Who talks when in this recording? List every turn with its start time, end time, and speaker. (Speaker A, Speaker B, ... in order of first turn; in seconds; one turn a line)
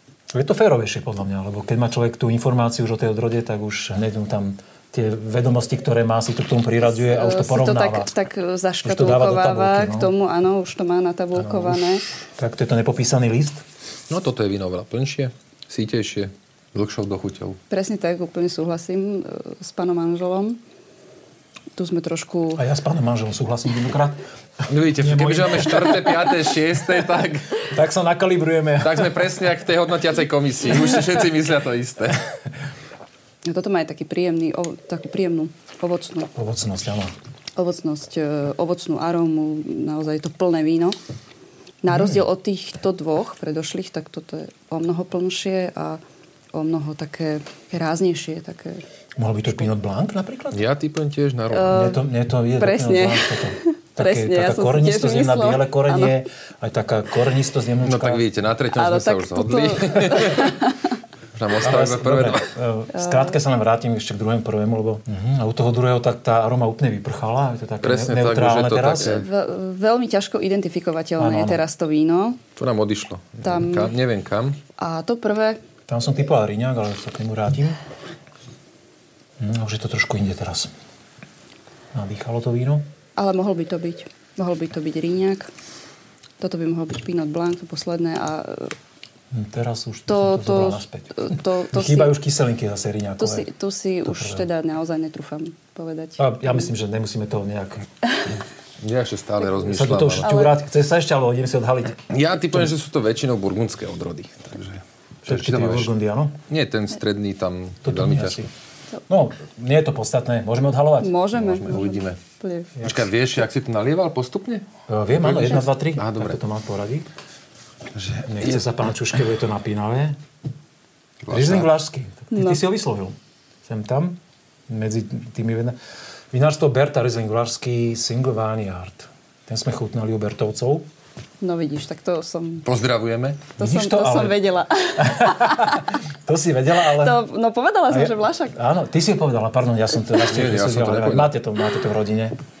Speaker A: 0.3-8.1
Speaker B: 7.0-12.0
Speaker A: 8.8-10.1
Speaker A: 11.4-11.8
Speaker A: 12.3-13.6
Speaker C: 14.1-17.6
Speaker B: 17.7-20.6
Speaker B: 21.7-22.6
Speaker A: 22.6-24.2
Speaker C: 24.6-27.7
Speaker A: 25.0-26.0
Speaker A: 27.7-29.2
Speaker C: 28.8-32.3
Speaker B: 33.4-36.3
Speaker A: 36.3-37.1
Speaker B: 37.5-41.0
Speaker B: 41.8-46.0
Speaker A: 41.9-42.2
Speaker B: 46.5-48.8
Speaker A: 49.2-50.6
Speaker C: 50.5-51.8
Speaker B: 51.5-52.0
Speaker A: 51.7-58.2
Speaker B: 52.6-56.1
Speaker C: 57.8-60.6
Speaker B: 58.7-60.7
Speaker C: 61.3-62.5
Speaker A: 61.6-69.2
Speaker B: 62.9-63.4
Speaker C: 67.8-69.3
Speaker B: 69.0-72.4
Speaker A: 71.2-71.6
Speaker C: 72.5-74.6
Speaker B: 73.4-73.9
Speaker B: 74.8-75.6
Speaker A: 75.9-77.8
Speaker A: 79.4-80.7
Speaker A: 81.9-82.8
Speaker B: 83.2-85.5
Speaker B: 86.4-88.7
Speaker A: 89.3-93.5
Speaker B: 90.1-92.1
Speaker B: 93.2-96.7
Speaker A: 94.0-94.4
Speaker A: 96.2-97.9
Speaker C: 98.8-100.3
Speaker A: 99.6-102.0
Speaker B: 100.2-100.6
Speaker C: 102.1-105.9
Speaker A: 105.3-106.4
Speaker C: 106.5-108.5
Speaker A: 107.8-108.5
Speaker A: 109.1-111.1
Speaker B: 111.0-112.7
Speaker C: 111.3-112.2
Speaker A: 112.8-113.0
Speaker C: 112.8-114.7
Speaker A: 114.9-117.1
Speaker C: 115.2-116.4
Speaker C: 117.9-118.6
Speaker A: 118.2-120.2
Speaker C: 121.2-121.7
Speaker A: 121.3-125.8
Speaker B: 122.3-122.6
Speaker A: 126.3-130.8
Speaker B: 131.4-132.7
Speaker C: 132.6-133.5
Speaker B: 133.6-135.8
Speaker A: 133.6-134.4
Speaker A: 134.9-137.2
Speaker B: 136.9-138.6
Speaker A: 137.9-142.3
Speaker C: 140.2-141.3